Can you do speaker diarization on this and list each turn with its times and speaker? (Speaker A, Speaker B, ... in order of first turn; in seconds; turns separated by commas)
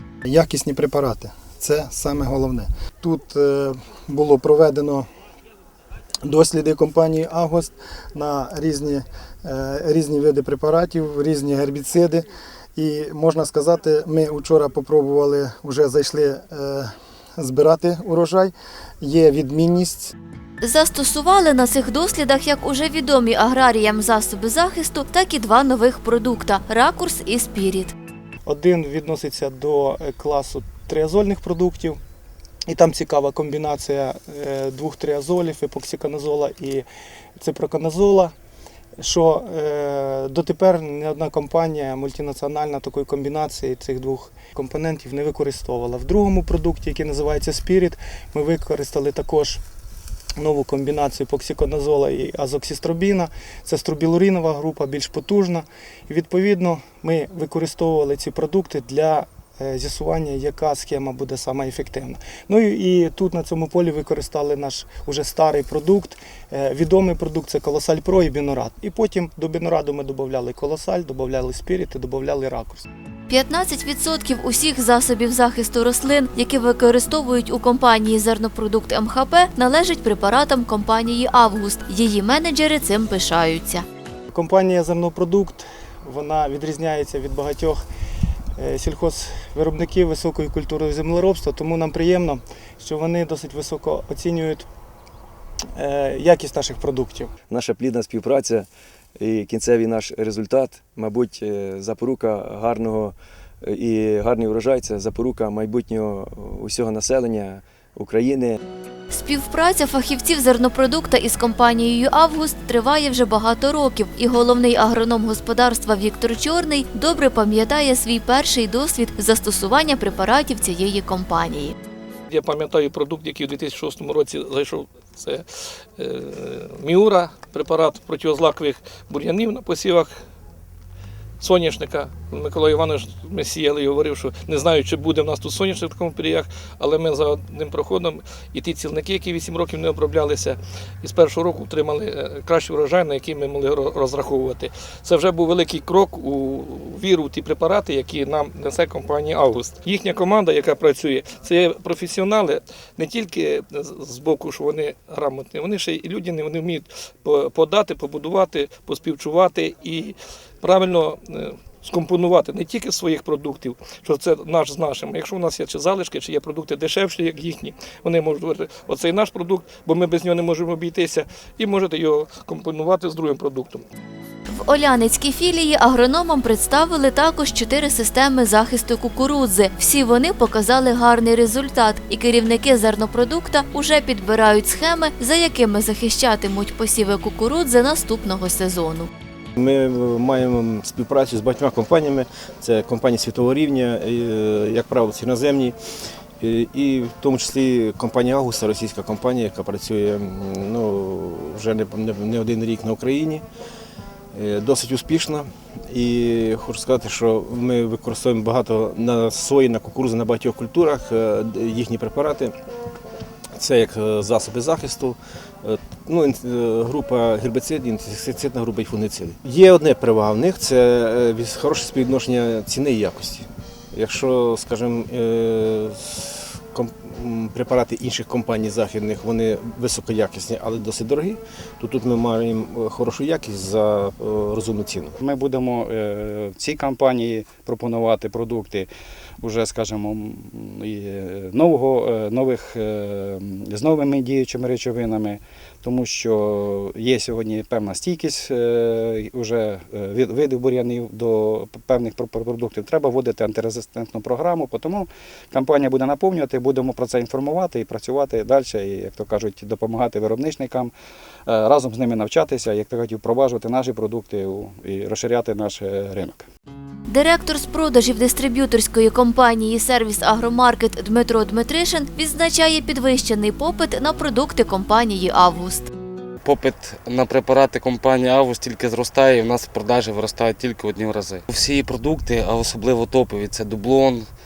Speaker A: 0.2-5.1, Speaker A: 6.2-20.1, Speaker B: 20.6-27.9, Speaker C: 28.4-32.0, Speaker C: 32.6-36.9, Speaker C: 37.4-38.3, Speaker C: 39.0-49.6, Speaker C: 50.4-72.9, Speaker B: 73.3-83.8, Speaker C: 84.3-87.8, Speaker C: 88.5-94.7, Speaker C: 95.7-97.3, Speaker D: 97.5-108.6, Speaker B: 109.1-121.7, Speaker E: 122.3-125.5, Speaker E: 126.0-130.2, Speaker E: 131.4-173.8, Speaker B: 174.5-189.1, Speaker F: 189.6-195.8, Speaker F: 196.4-203.4, Speaker F: 204.3-212.5, Speaker F: 213.6-235.1, Speaker G: 235.2-238.9, Speaker G: 239.4-260.9, Speaker G: 261.5-266.5, Speaker B: 267.1-275.9, Speaker H: 276.4-284.3